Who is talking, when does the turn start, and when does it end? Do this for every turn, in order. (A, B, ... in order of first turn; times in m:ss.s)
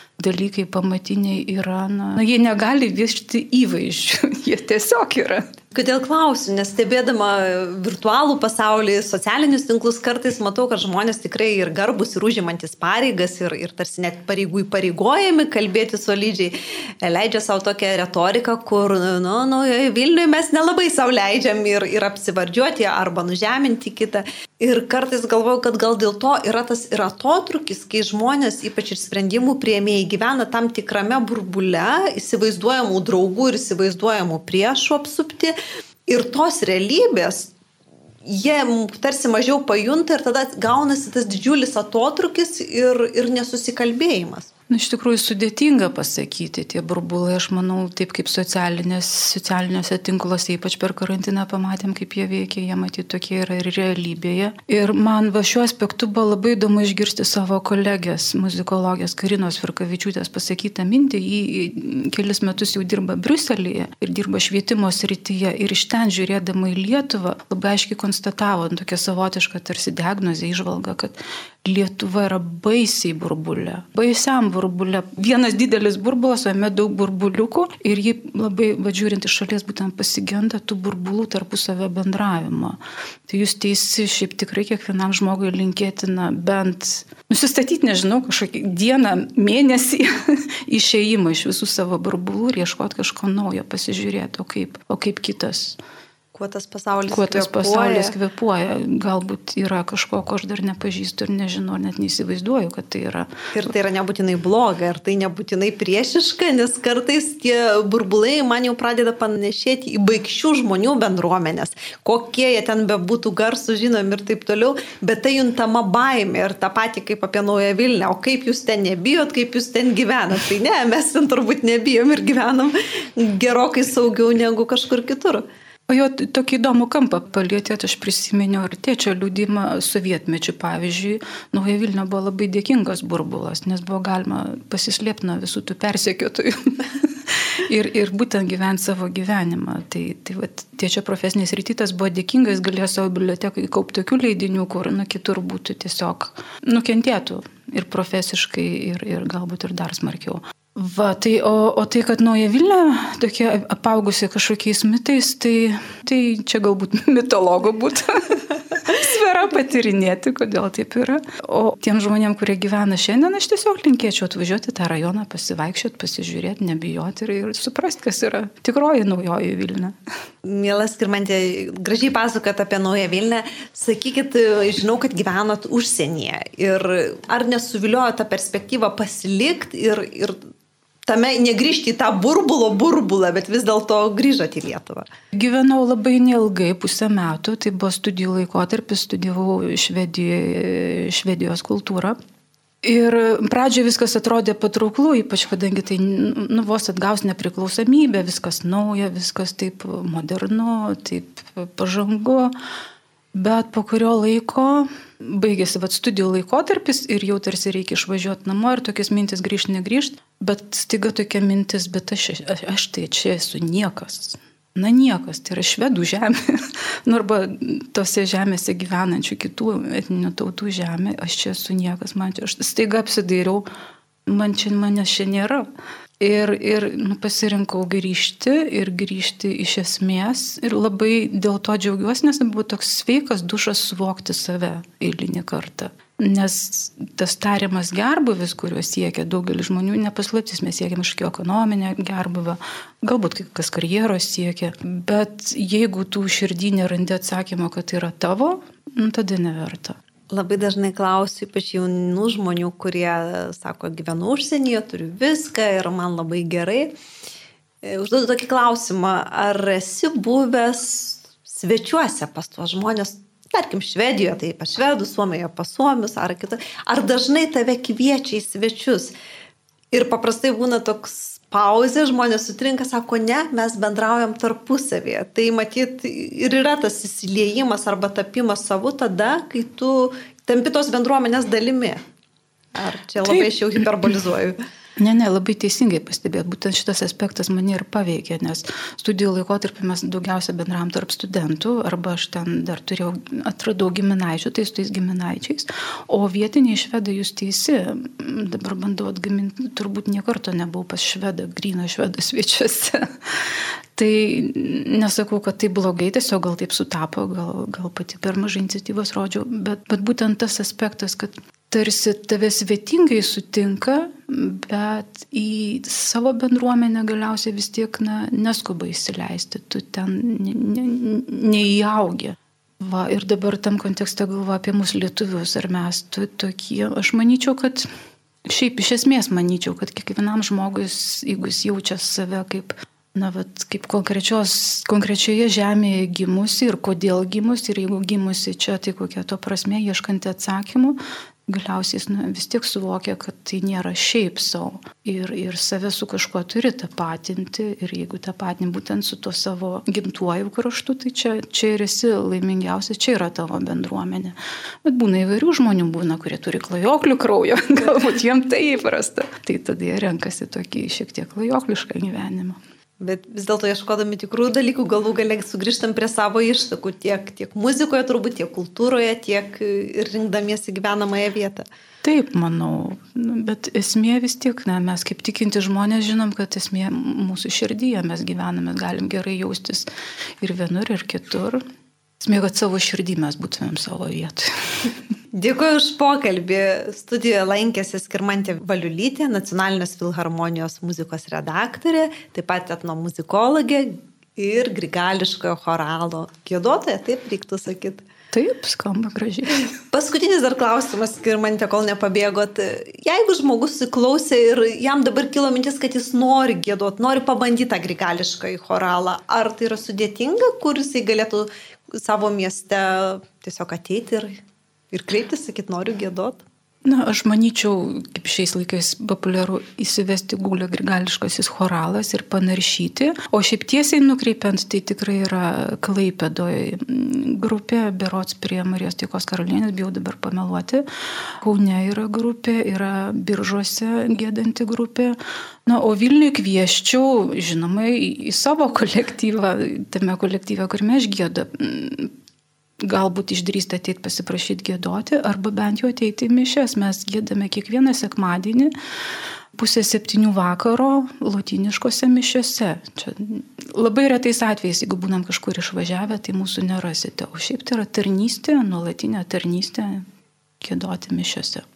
0:00.2-0:05.5 A
0:05.7-0:35.6 B
0:36.1-0:37.5 B
0:38.2-0:44.5 B
0:44.7-1:35.8 A
1:36.3-1:38.2 B
1:37.1-1:43.7 A
1:43.5-2:05.5 B
2:05.9-2:50.0 A
2:50.4-3:00.4 B
3:01.1-3:05.1 B
3:05.3-3:12.2 A
3:12.8-3:22.5 A
3:23.3-3:43.6 A
3:44.3-3:45.7 A
3:46.2-4:10.0 A
4:10.3-4:16.9 B
4:17.8-4:29.1 B
4:29.9-4:42.0 B
4:42.8-4:44.6 B
4:45.0-5:27.9 A
5:28.5-6:02.6 A
6:03.0-6:11.7 B
6:12.0-6:19.9 A
6:20.4-6:21.6 A
6:22.2-6:25.0 A
6:25.3-6:38.0 B
6:38.3-6:39.7 A
6:39.9-6:54.3 B
6:54.9-6:56.4 B
6:56.8-7:10.8 A
7:11.4-7:22.1 A
7:22.8-7:28.7 A
7:29.6-7:40.1 A
7:40.6-7:41.7 A